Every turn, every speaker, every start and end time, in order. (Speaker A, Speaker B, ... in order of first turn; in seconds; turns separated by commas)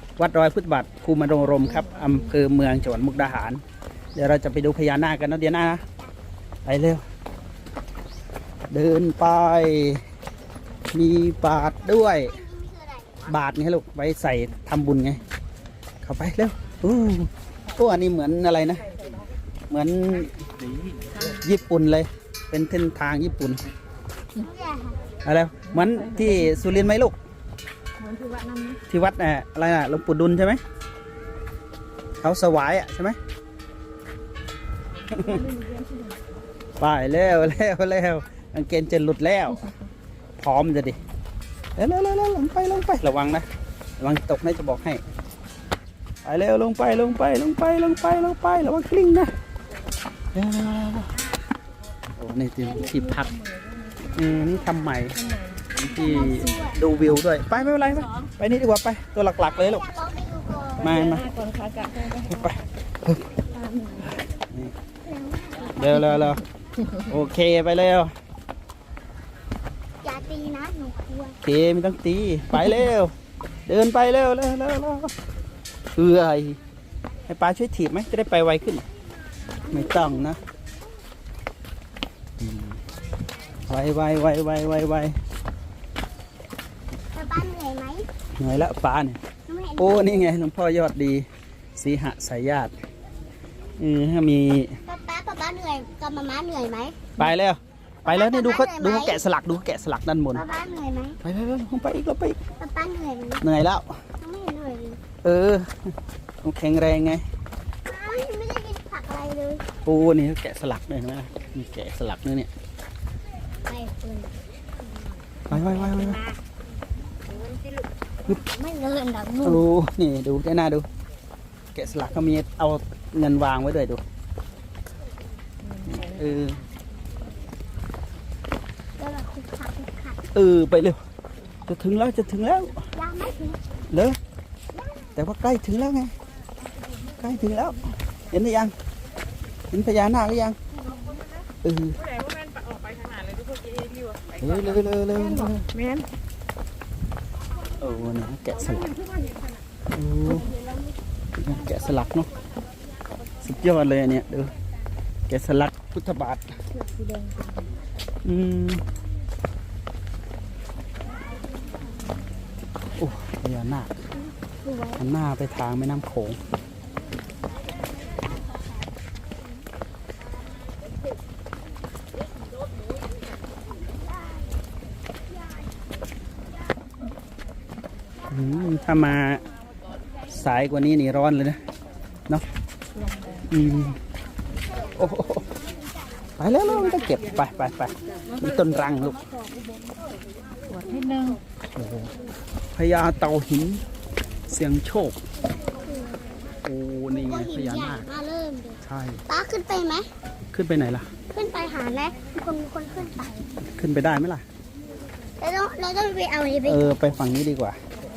Speaker A: 0.2-3.6, Speaker B: 1.8-2.2, Speaker A: 4.1-5.8, Speaker A: 6.7-7.0, Speaker A: 8.7-10.0, Speaker A: 10.9-12.3, Speaker C: 11.7-13.4, Speaker A: 13.3-15.2, Speaker A: 16.0-18.8, Speaker A: 19.7-20.4, Speaker A: 21.2-23.6, Speaker C: 24.3-25.0, Speaker A: 25.2-27.2, Speaker B: 28.0-28.8, Speaker A: 28.9-30.6, Speaker A: 32.2-33.2, Speaker B: 35.0-36.2, Speaker A: 35.1-35.5, Speaker A: 36.8-39.7, Speaker A: 40.4-41.0, Speaker A: 41.8-43.5, Speaker A: 44.0-45.0, Speaker A: 46.2-49.3, Speaker A: 50.3-51.2, Speaker A: 52.2-53.3, Speaker B: 52.7-54.0, Speaker C: 54.0-54.9, Speaker A: 54.2-55.2, Speaker B: 55.2-56.0, Speaker A: 55.8-59.8, Speaker C: 55.8-56.8, Speaker C: 59.4-60.9, Speaker A: 60.8-61.3, Speaker B: 60.8-62.5, Speaker A: 62.3-63.2, Speaker B: 63.5-64.1, Speaker C: 65.0-66.4, Speaker A: 65.8-66.4, Speaker A: 67.0-68.1, Speaker C: 70.0-71.4, Speaker A: 71.4-73.1, Speaker A: 73.7-75.1, Speaker A: 76.0-76.6, Speaker A: 77.3-78.8, Speaker C: 79.7-80.3, Speaker A: 79.7-80.4, Speaker A: 82.4-82.8, Speaker A: 83.7-85.2, Speaker C: 87.1-88.1, Speaker A: 88.4-89.2, Speaker C: 89.5-90.3, Speaker A: 89.8-92.7, Speaker A: 93.8-94.8, Speaker C: 94.9-97.1, Speaker A: 97.2-100.4, Speaker C: 98.0-99.2, Speaker C: 100.3-101.2, Speaker A: 101.2-102.4, Speaker C: 102.6-103.4, Speaker A: 103.4-104.0, Speaker C: 104.2-105.0, Speaker A: 105.2-105.7, Speaker A: 106.4-107.2, Speaker C: 107.8-109.7, Speaker A: 109.8-112.5, Speaker C: 113.6-116.4, Speaker A: 115.5-116.2, Speaker C: 117.2-119.6, Speaker A: 119.4-120.9, Speaker A: 121.8-124.0, Speaker B: 125.6-126.2, Speaker A: 125.9-126.6, Speaker C: 129.0-130.2, Speaker A: 130.3-131.0, Speaker A: 131.7-132.8, Speaker C: 132.9-133.6, Speaker A: 133.9-134.2, Speaker C: 134.7-135.1, Speaker A: 135.2-136.1, Speaker A: 137.2-138.7, Speaker A: 139.7-140.6, Speaker A: 141.6-142.0, Speaker A: 144.4-145.6, Speaker B: 145.2-146.1, Speaker A: 147.8-148.9, Speaker A: 149.9-150.5, Speaker A: 151.4-152.3, Speaker A: 153.4-154.5, Speaker A: 155.3-156.5, Speaker B: 156.8-157.6, Speaker A: 158.2-158.8, Speaker A: 163.0-164.0, Speaker C: 164.4-165.0, Speaker A: 165.0-166.4, Speaker A: 178.3-179.4, Speaker A: 180.3-181.6, Speaker B: 182.9-183.5, Speaker A: 183.5-184.0, Speaker C: 184.5-186.3, Speaker A: 185.0-185.5, Speaker A: 186.4-189.2, Speaker B: 190.7-191.4, Speaker A: 191.8-192.1, Speaker A: 192.8-193.8, Speaker A: 194.5-195.2, Speaker C: 195.7-196.3, Speaker A: 196.6-198.1, Speaker C: 197.1-200.1, Speaker A: 198.8-199.2, Speaker A: 200.5-201.1, Speaker C: 201.3-203.5, Speaker A: 203.7-204.4, Speaker C: 205.4-206.9, Speaker A: 206.7-207.8